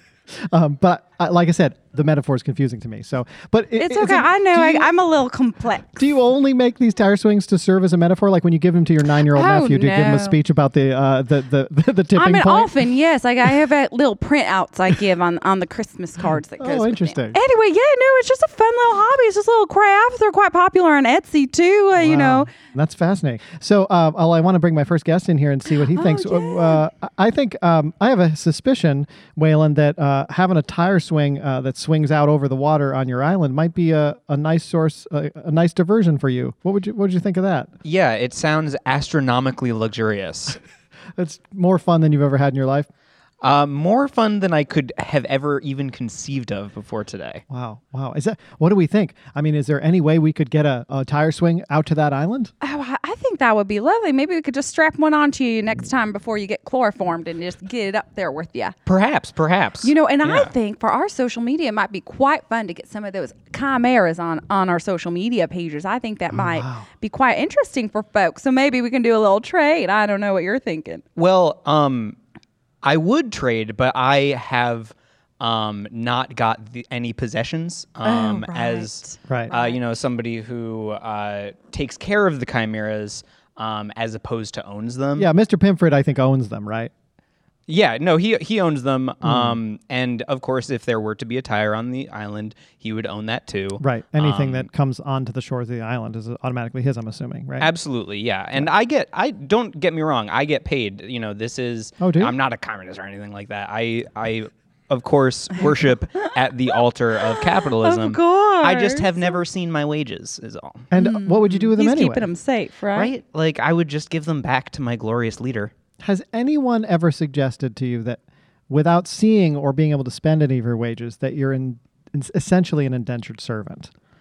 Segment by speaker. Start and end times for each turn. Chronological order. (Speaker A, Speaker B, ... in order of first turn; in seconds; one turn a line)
Speaker A: 0.3-4.9
Speaker B: 3.8-6.1
Speaker A: 6.0-12.8
Speaker B: 9.3-10.4
Speaker B: 12.1-22.5
Speaker A: 16.6-17.4
Speaker A: 21.9-37.7
Speaker B: 25.8-26.8
Speaker C: 37.8-40.6
Speaker A: 41.1-42.9
Speaker C: 43.4-47.4
Speaker A: 47.5-52.5
Speaker B: 52.6-58.8
Speaker C: 58.9-60.5
Speaker B: 59.8-71.0
Speaker A: 66.3-66.9
Speaker C: 71.2-72.2
Speaker C: 72.8-85.3
Speaker B: 78.0-79.8
Speaker A: 85.2-86.9
Speaker C: 87.7-94.7
Speaker A: 89.2-89.6
Speaker A: 93.8-97.7
Speaker C: 97.6-110.9
Speaker A: 102.0-102.3
Speaker B: 107.3-109.4
Speaker A: 110.9-112.3
Speaker B: 111.0-113.1
Speaker C: 112.9-115.7
Speaker A: 116.0-123.9